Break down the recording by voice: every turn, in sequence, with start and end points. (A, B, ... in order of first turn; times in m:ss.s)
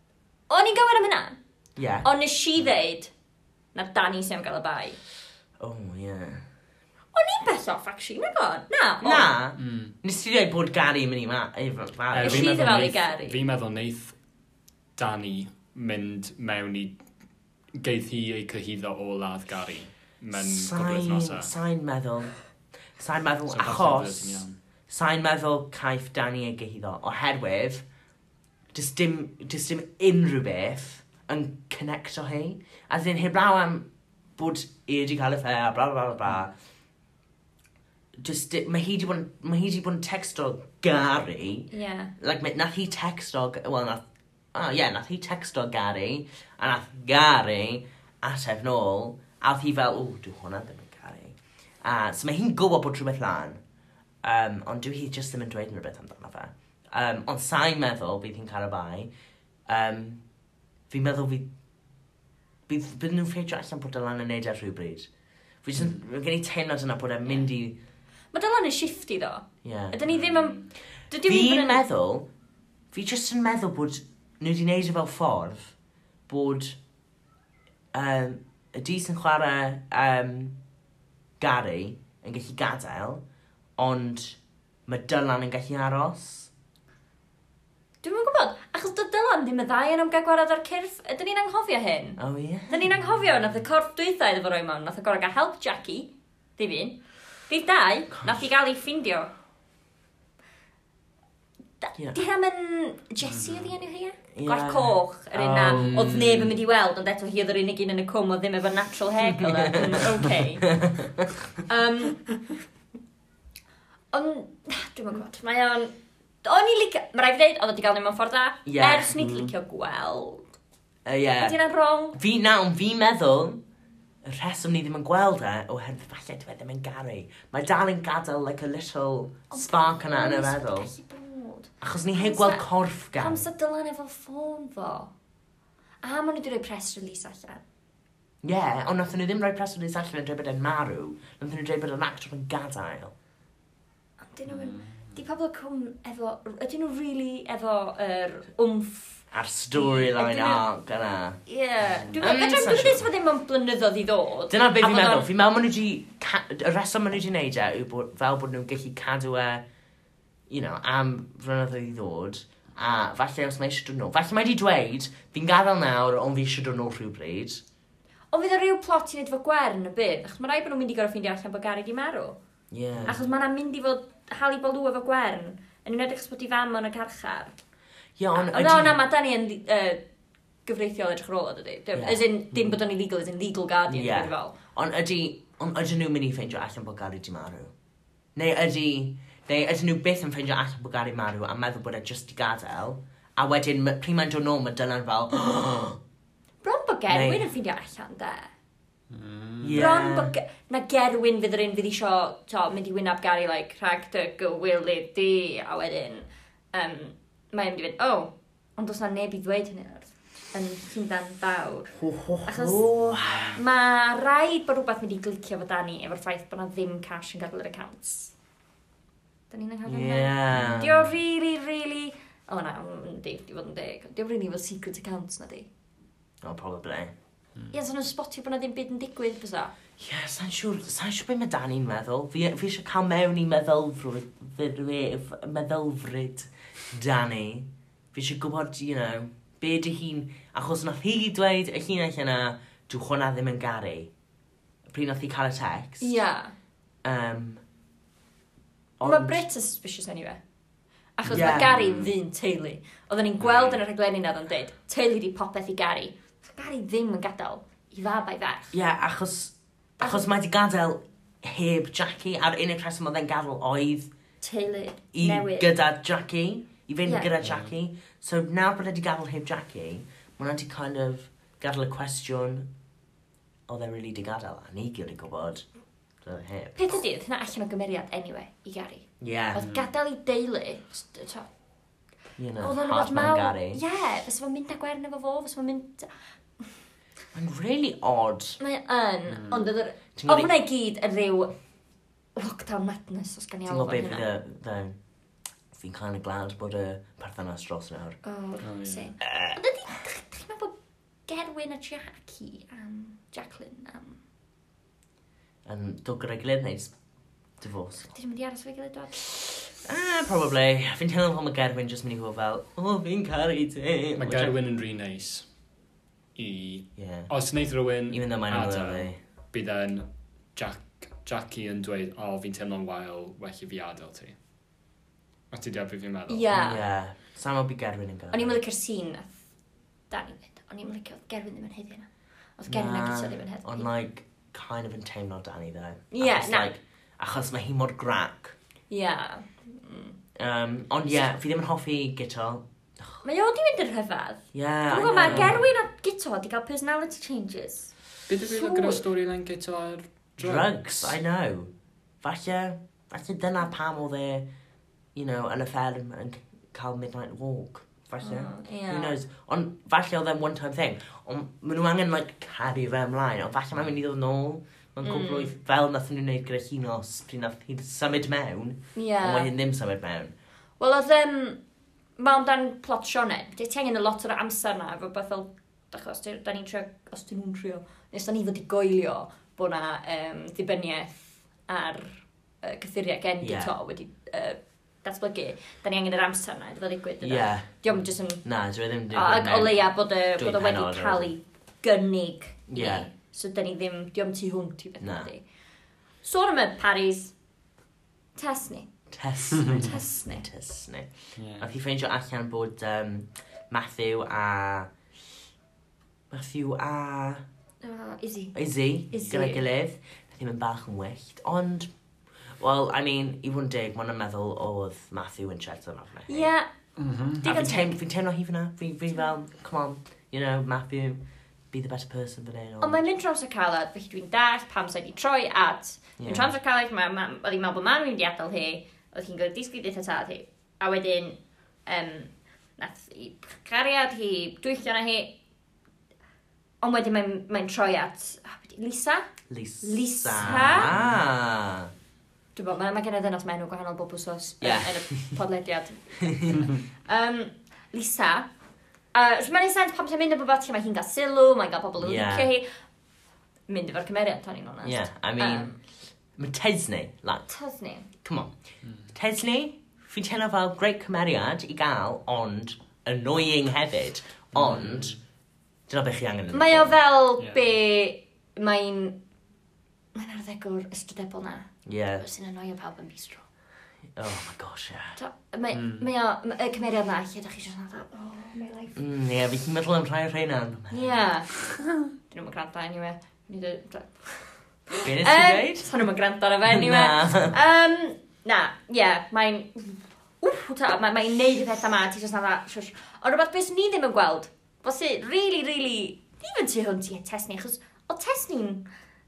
0:00.5-0:01.4 A
0:01.8-0:02.1 B
0:02.0-0:03.1 A
0:03.7-0:05.0 A
0:05.6-0:06.4 B
0:07.1-0:09.3 A
0:09.0-0:12.9 B
0:09.6-0:09.9 C
0:12.1-0:14.2 C
0:12.2-0:13.4 A
0:15.0-0:17.0 C
0:17.8-0:21.5 C
0:20.4-0:22.4 B
0:23.0-0:27.8 B
0:23.5-0:24.6 C
0:28.7-0:36.5 B
0:38.2-0:44.0 B
0:41.7-0:42.1 A
0:44.5-0:53.6 B
0:54.2-0:59.1 B
0:59.7-1:00.2 B
1:00.9-1:01.5 B
1:02.7-1:05.1 B
1:05.6-1:07.8 B
1:08.3-1:11.8 A
1:09.6-1:10.0 B
1:11.2-1:12.3 B
1:12.9-1:15.7 B
1:16.3-1:16.8 B
1:17.9-1:20.6 B
1:21.4-1:23.2 B
1:23.8-1:26.5 B
1:28.0-1:39.3 A
1:32.2-1:32.8 B
1:38.2-1:38.4 B
1:41.8-1:50.8 A
1:43.3-1:43.6 C
1:44.4-1:46.5 B
1:49.4-1:50.0 B
1:50.8-1:51.3 B
1:51.7-1:52.3 A
1:54.1-2:00.4 A
1:58.7-1:59.1 B
1:59.2-1:59.5 C
2:01.0-2:01.6 B
2:01.4-2:02.2 A
2:02.1-2:03.6 B
2:04.2-2:10.9 B
2:09.5-2:12.6 A
2:11.8-2:13.4 B
2:13.2-2:15.1 A
2:16.0-2:17.6 A
2:18.4-2:23.1 B
2:24.3-2:29.2 A
2:24.6-2:24.9 C
2:29.3-2:31.4 B
2:29.7-2:30.6 A
2:31.5-2:35.3 A
2:32.2-2:33.1 B
2:34.5-2:39.6 B
2:40.5-2:47.6 B
2:48.3-2:52.4 A
2:52.7-2:53.2 B
2:53.0-2:57.6 A
2:58.2-2:59.0 B
2:58.4-3:00.0 A
3:00.7-3:04.6 A
3:01.9-3:02.2 B
3:03.9-3:07.7 B
3:08.4-3:16.0 B
3:16.6-3:18.5 A
3:17.1-3:17.5 B
3:19.1-3:19.8 C
3:19.6-3:20.3 B
3:19.8-3:32.9 A
3:32.0-3:33.6 B
3:33.2-3:33.4 C
3:33.5-3:38.3 A
3:39.5-3:45.7 A
3:39.9-3:41.0 B
3:40.5-3:40.8 C
3:46.4-3:47.1 B
3:47.7-3:49.7 A
3:50.0-4:04.1 B
4:04.9-4:06.2 B
4:06.0-4:06.5 A
4:07.0-4:07.6 B
4:09.0-4:09.4 B
4:09.0-4:10.4 A
4:11.2-4:18.8 A
4:11.3-4:12.1 C
4:11.3-4:11.7 B
4:13.4-4:13.8 C
4:18.7-4:24.1 B
4:20.0-4:20.3 A
4:24.4-4:25.7 A
4:25.1-4:32.7 B
4:27.1-4:27.3 A
4:27.4-4:27.7 C
4:33.7-4:35.6 B
4:36.2-4:37.0 B
4:36.8-4:41.5 A
4:39.2-4:39.6 B
4:39.6-4:39.9 C
4:42.4-4:43.8 B
4:42.6-4:46.1 A
4:47.3-4:48.6 B
4:48.6-4:51.5 A
4:49.3-4:49.6 C
4:50.2-4:50.5 B
4:52.4-4:54.3 A
4:53.7-4:55.0 B
4:55.7-4:58.2 B
4:58.2-5:00.7 A
4:58.6-4:59.1 C
4:59.2-4:59.6 B
5:01.3-5:04.2 A
5:05.6-5:07.0 B
5:07.6-5:08.1 B
5:08.1-5:09.5 A
5:09.8-5:14.6 B
5:14.2-5:15.5 C
5:16.4-5:24.4 C
5:17.0-5:17.3 B
5:18.1-5:19.2 B
5:25.5-5:26.5 C
5:26.3-5:26.8 A
5:26.5-5:28.6 B
5:28.3-5:29.4 A
5:30.1-5:33.9 A
5:32.7-5:38.6 B
5:36.1-5:36.7 A
5:38.9-5:40.2 A
5:40.4-5:42.6 B
5:43.2-5:47.9 A
5:44.5-5:45.6 B
5:45.3-5:45.6 C
5:48.3-5:51.1 C
5:48.4-5:49.0 A
5:50.4-5:51.7 B
5:52.2-5:54.4 B
5:55.2-6:10.3 B
5:58.2-5:59.2 A
6:05.0-6:05.5 A
6:09.0-6:09.5 A
6:10.8-6:11.6 A
6:12.2-6:28.4 A
6:23.4-6:23.7 B
6:27.2-6:27.9 B
6:28.4-6:29.8 B
6:29.1-6:35.4 A
6:30.4-6:31.3 B
6:32.7-6:33.1 B
6:35.0-6:35.3 B
6:36.2-6:37.3 A
6:38.4-6:38.9 A
6:39.1-6:44.9 B
6:39.6-6:40.5 A
6:41.4-6:41.7 C
6:46.3-6:47.4 B
6:47.8-6:48.6 A
6:48.6-6:51.9 B
6:49.1-6:49.6 A
6:52.6-6:56.5 B
6:56.3-6:56.7 A
6:57.0-6:57.4 C
6:57.4-6:58.0 A
6:57.4-7:03.0 B
7:02.8-7:15.4 A
7:06.2-7:06.5 B
7:16.8-7:19.3 A
7:19.5-7:21.9 B
7:19.8-7:20.9 A
7:20.4-7:21.2 C
7:22.6-7:28.5 A
7:24.6-7:25.4 B
7:26.2-7:26.6 B
7:29.1-7:32.7 A
7:32.0-7:32.5 B
7:33.7-7:35.8 A
7:34.8-7:35.7 B
7:36.4-7:37.5 B
7:37.5-7:38.1 A
7:38.2-7:38.5 B
7:39.1-7:45.2 B
7:44.5-7:45.2 C
7:45.9-7:47.0 B
7:46.5-7:49.2 A
7:50.2-7:51.7 A
7:51.9-7:52.2 B
7:52.2-7:53.4 A
7:54.2-7:55.2 B
7:55.2-7:59.0 A
7:55.7-7:56.1 C
7:59.0-8:01.3 B
8:00.9-8:01.6 A
8:02.3-8:18.8 A
8:05.0-8:05.9 B
8:06.7-8:07.6 B